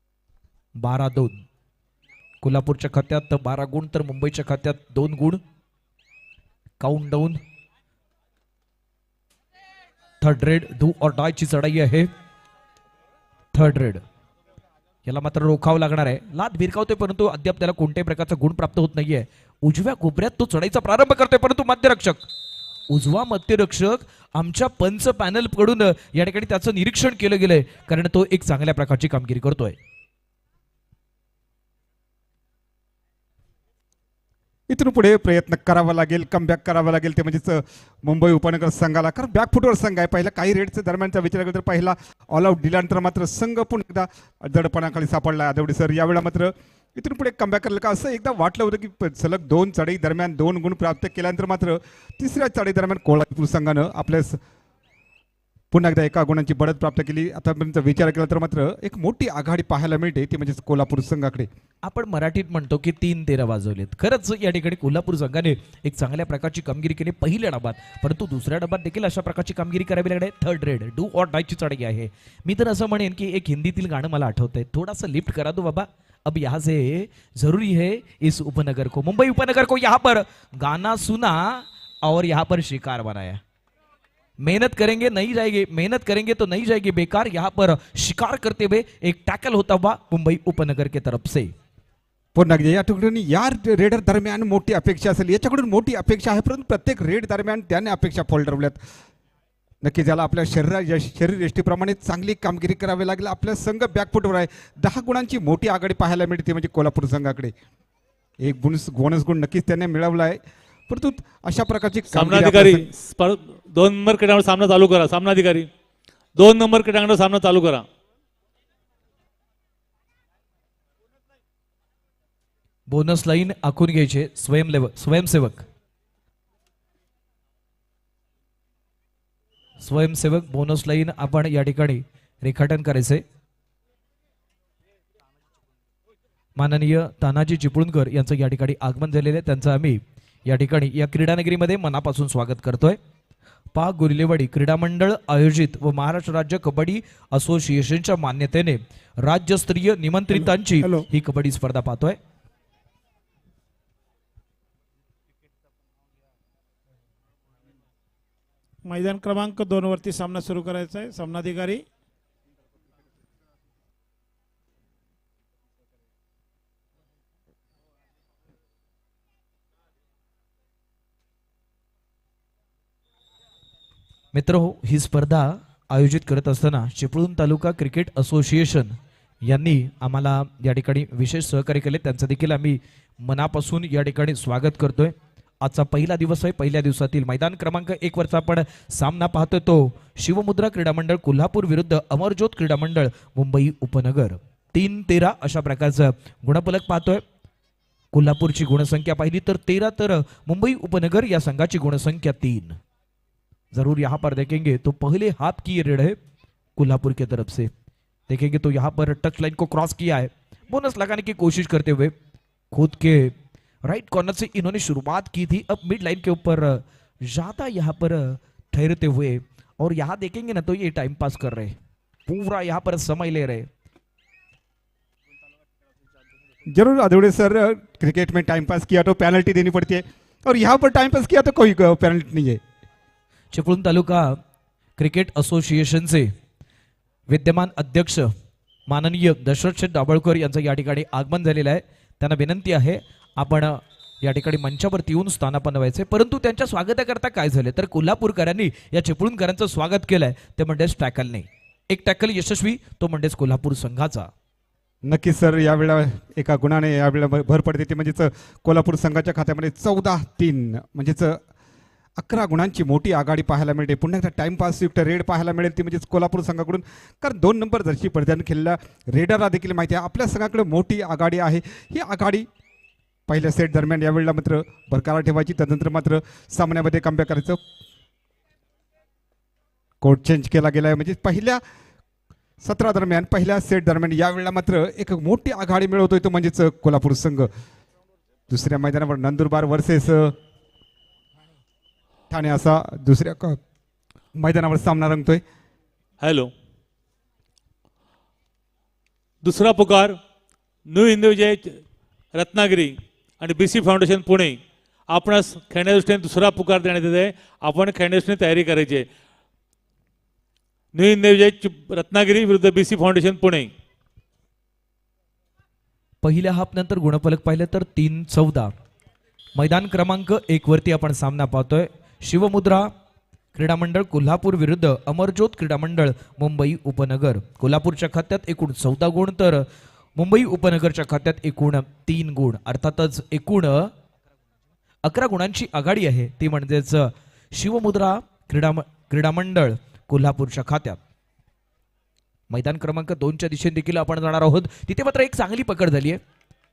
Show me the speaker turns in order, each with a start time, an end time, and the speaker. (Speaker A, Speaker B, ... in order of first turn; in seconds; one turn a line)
Speaker A: 0.8-1.3
Speaker A: 2.4-5.4
Speaker A: 6.8-7.4
Speaker A: 10.2-12.1
Speaker A: 13.5-14.0
Speaker A: 15.1-22.3
Speaker A: 22.9-29.8
Speaker B: 34.7-54.4
Speaker B: 55.7-61.5
Speaker A: 61.8-83.4
Speaker A: 84.4-91.5
Speaker B: 92.3-98.8
Speaker B: 99.8-107.5
Speaker B: 108.4-112.9
Speaker C: 112.1-115.7
Speaker C: 116.4-117.8
Speaker A: 122.9-125.6
Speaker A: 129.8-133.2
Speaker A: 136.6-143.0
Speaker A: 143.7-152.2
Speaker D: 158.8-161.8
Speaker A: 174.3-178.9
Speaker A: 179.4-197.2
Speaker A: 198.1-202.8
Speaker A: 203.7-206.2
Speaker A: 206.8-207.7
Speaker A: 208.3-212.1
Speaker A: 212.7-213.3
Speaker A: 213.8-221.7
Speaker A: 222.3-223.7
Speaker B: 226.7-232.6
Speaker A: 233.5-234.4
Speaker A: 235.0-236.3
Speaker A: 237.3-238.3
Speaker A: 238.9-254.3
Speaker B: 255.0-261.4
Speaker B: 262.2-272.5
Speaker B: 273.3-277.6
Speaker B: 280.0-281.6
Speaker B: 282.6-287.5
Speaker B: 288.5-290.3
Speaker B: 292.3-293.6
Speaker B: 294.4-295.4
Speaker C: 296.2-296.5
Speaker C: 299.4-300.1
Speaker C: 300.9-301.8
Speaker C: 302.3-304.6
Speaker C: 305.1-309.1
Speaker C: 310.9-313.7
Speaker A: 316.2-318.7
Speaker A: 319.6-322.9
Speaker A: 323.5-329.6
Speaker A: 330.2-333.9
Speaker A: 335.0-341.0
Speaker A: 342.5-346.2